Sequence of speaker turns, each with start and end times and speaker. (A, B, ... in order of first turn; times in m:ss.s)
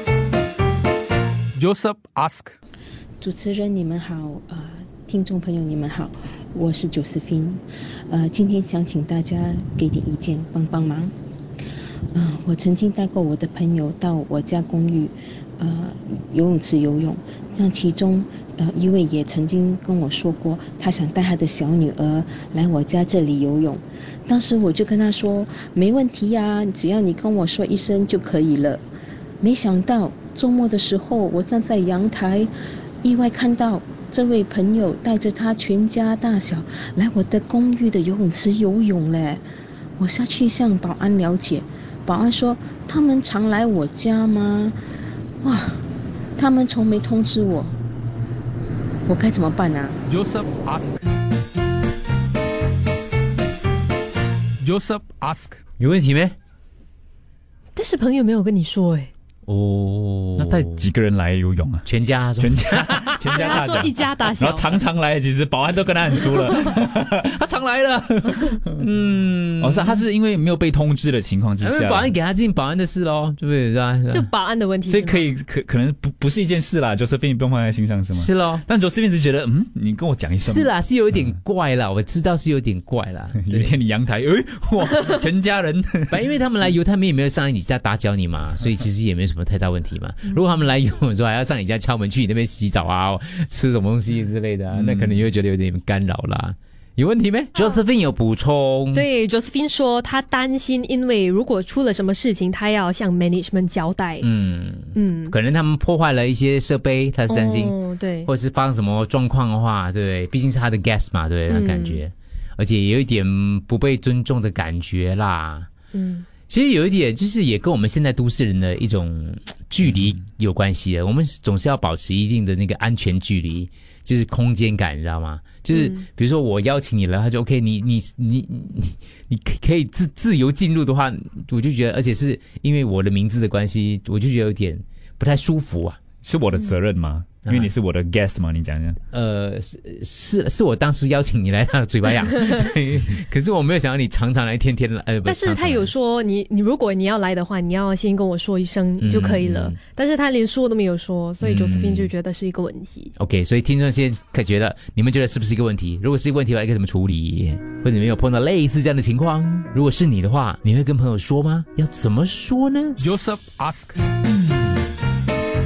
0:01.6-0:02.6 A
0:03.2-0:11.1 B
0:12.1-0:28.8 B
0:29.4-0:32.5 B
0:33.0-0:39.4 B
0:40.0-0:44.8 B
0:45.4-0:45.8 B
0:46.4-0:47.8 B
0:49.0-0:50.0 B
0:50.1-0:51.0 A
0:54.6-0:55.6 A
0:55.8-0:56.4 C
0:57.8-0:59.1 D
0:59.5-1:00.9 C
1:00.4-1:01.8 E
1:01.8-1:03.5 C
1:02.4-1:08.8 E
1:03.3-1:04.8 D
1:08.8-1:10.0 C
1:09.6-1:12.1 E
1:11.6-1:14.3 C
1:14.1-1:15.3 D
1:14.8-1:20.7 E
1:18.1-1:18.6 C
1:20.4-1:23.7 C
1:23.4-1:26.1 E
1:26.1-1:39.0 C
1:34.7-1:35.2 E
1:38.9-1:44.3 D
1:44.2-1:55.7 C
1:44.9-1:45.3 D
1:47.3-1:48.3 D
1:51.5-1:52.0 D
1:55.9-1:56.2 D
1:56.5-2:16.0 C
2:05.7-2:06.0 D
2:16.2-2:19.0 E
2:17.4-2:17.7 C
2:19.1-2:25.9 C
2:25.2-2:33.1 D
2:29.0-2:29.8 C
2:31.4-2:32.1 C
2:33.2-2:43.0 C
2:43.0-2:44.0 A